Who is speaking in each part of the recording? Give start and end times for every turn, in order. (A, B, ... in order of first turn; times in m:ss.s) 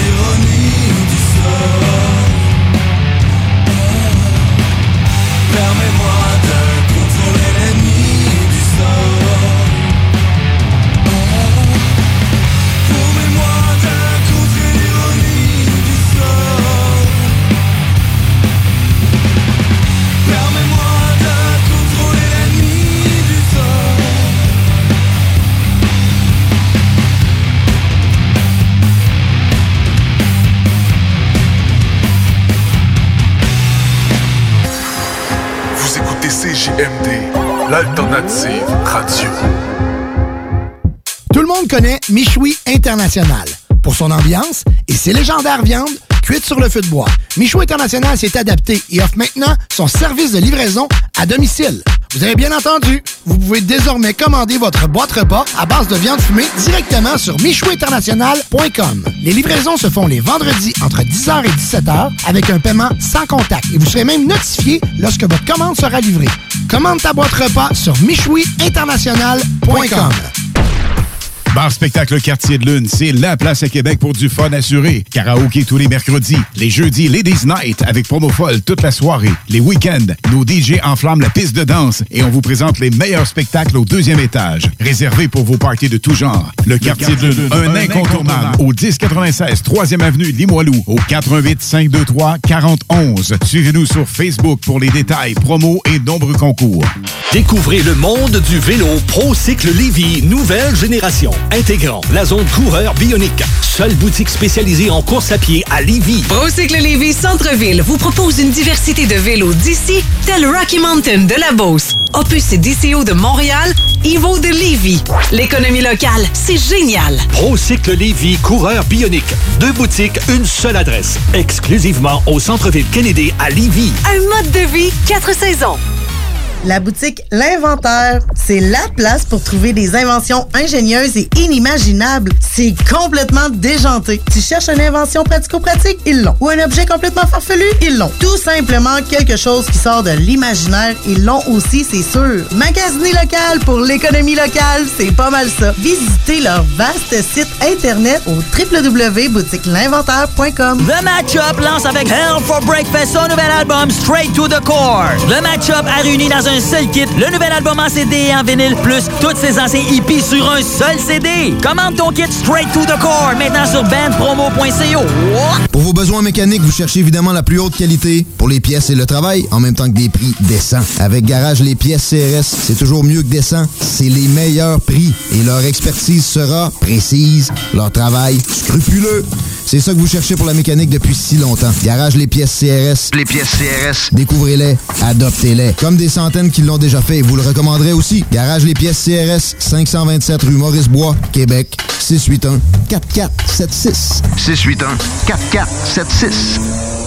0:41.3-1:10.3 A
1:11.5-1:36.9 B
1:37.3-1:46.3 C
1:46.3-1:57.2 D
1:57.3-2:04.0 C
2:04.0-2:05.8 D
2:06.6-2:30.8 E
2:30.8-2:45.6 F
2:45.7-3:16.6 G